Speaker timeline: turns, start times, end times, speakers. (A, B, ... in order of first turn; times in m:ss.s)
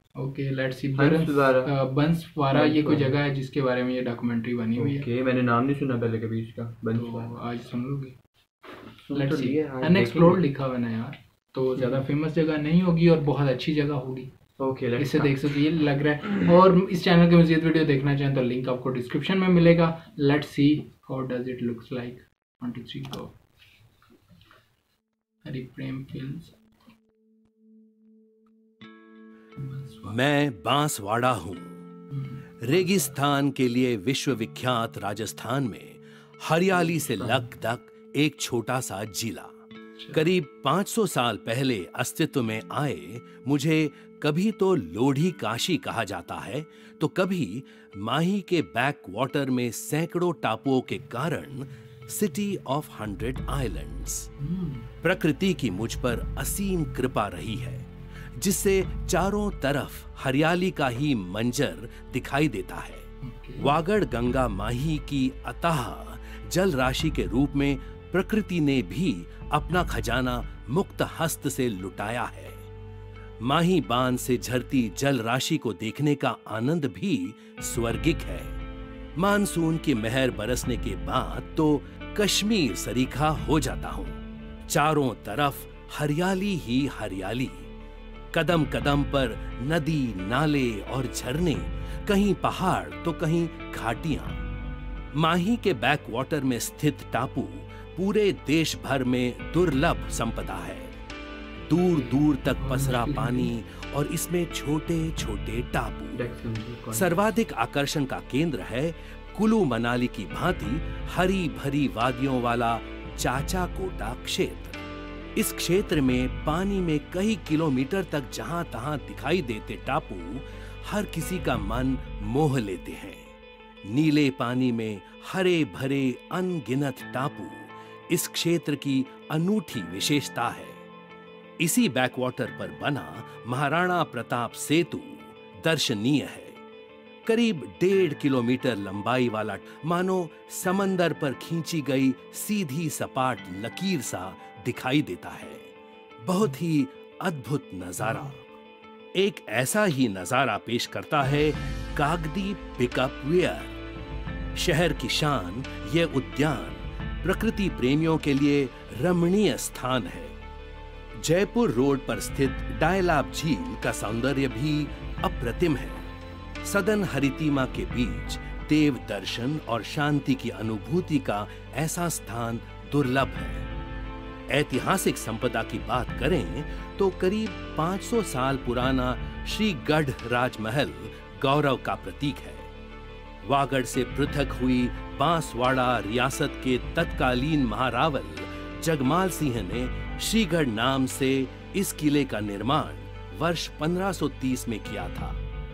0:00.2-0:05.0 A
0:01.0-0:01.7 B
0:02.5-0:03.2 B
0:04.8-0:07.3 B
0:07.0-0:08.2 A
0:09.1-0:10.4 B
0:09.1-0:14.3 A
0:11.8-0:12.0 B
0:14.6-0:15.4 B
0:15.0-0:23.3 A
0:25.4-0:26.6 A
0:29.6-0:30.2 A
0:30.0-0:31.8 C
0:32.2-0:32.4 A
0:32.6-0:39.6 C
0:37.0-0:37.4 B
0:40.1-0:54.3 C
0:54.4-0:54.9 A
0:55.0-1:12.6 C
1:03.2-1:03.7 A
1:13.4-1:18.6 C
1:19.2-1:27.7 C
1:28.3-1:34.4 C
1:35.2-1:40.9 C
1:41.7-1:46.2 C
1:41.8-1:43.5 A
1:46.1-1:47.1 B
1:46.9-1:54.8 C
1:55.4-2:03.3 C
2:03.9-2:10.8 C
2:11.6-2:16.6 C
2:17.2-2:25.7 C
2:26.2-2:28.3 C
2:28.0-2:28.4 A
2:29.2-2:33.8 C
2:34.6-2:40.4 C
2:41.2-2:46.1 C
2:46.6-2:53.7 C
2:54.5-3:02.7 C
3:03.4-3:15.4 C